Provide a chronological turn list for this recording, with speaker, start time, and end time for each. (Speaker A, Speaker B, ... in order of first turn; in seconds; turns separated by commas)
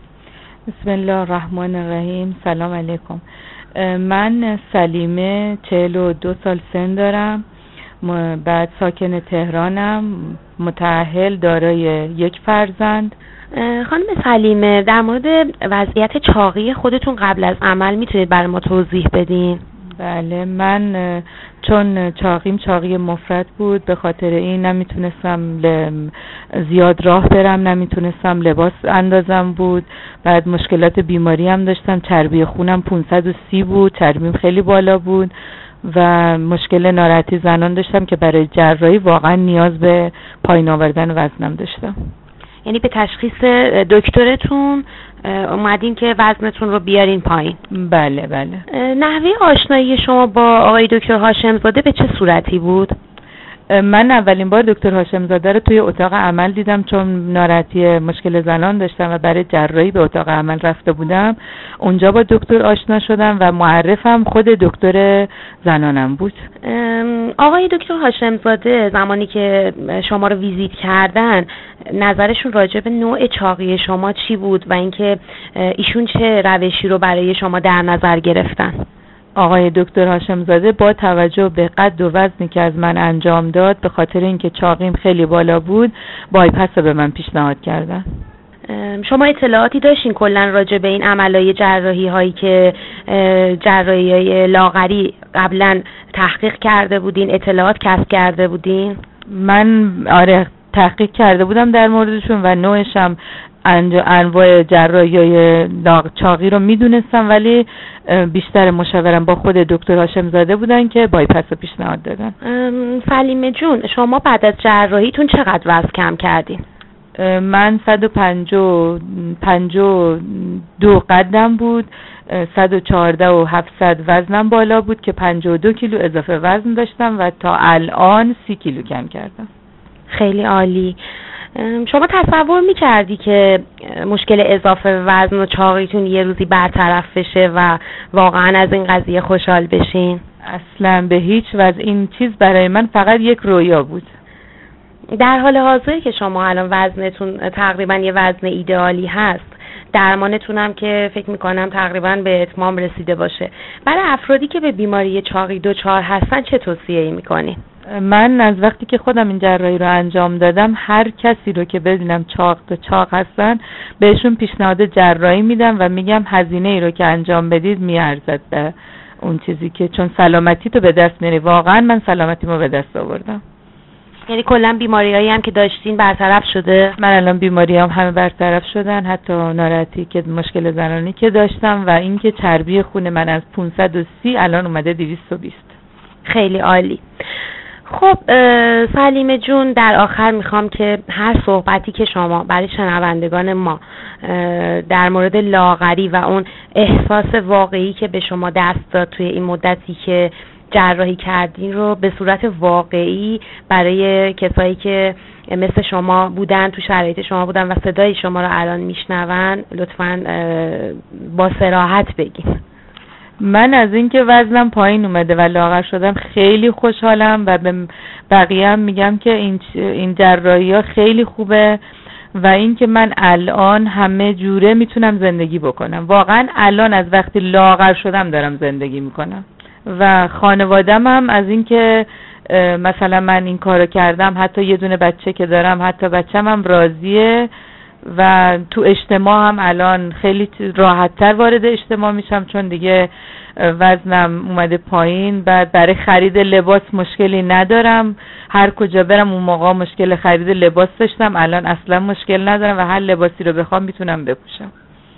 Speaker A: 0.7-3.2, Speaker A: 3.8-7.4, Speaker A: 8.0-13.1, Speaker B: 13.5-19.6, Speaker A: 20.0-35.3, Speaker A: 35.8-42.0, Speaker B: 42.7-47.6, Speaker A: 47.7-48.6, Speaker B: 48.7-53.0, Speaker A: 53.7-66.4, Speaker B: 66.6-78.8, Speaker A: 79.4-88.1, Speaker B: 88.7-99.0, Speaker A: 99.3-112.3, Speaker B: 112.4-116.6, Speaker A: 117.2-129.5, Speaker B: 130.1-131.0, Speaker B: 131.6-140.2, Speaker A: 140.5-144.1, Speaker B: 145.1-157.6, Speaker A: 157.9-173.4, Speaker B: 174.3-177.0, Speaker A: 177.0-185.7, Speaker B: 186.2-187.0, Speaker B: 187.9-212.6, Speaker A: 213.4-221.8, Speaker A: 222.3-237.5, Speaker A: 238.1-254.7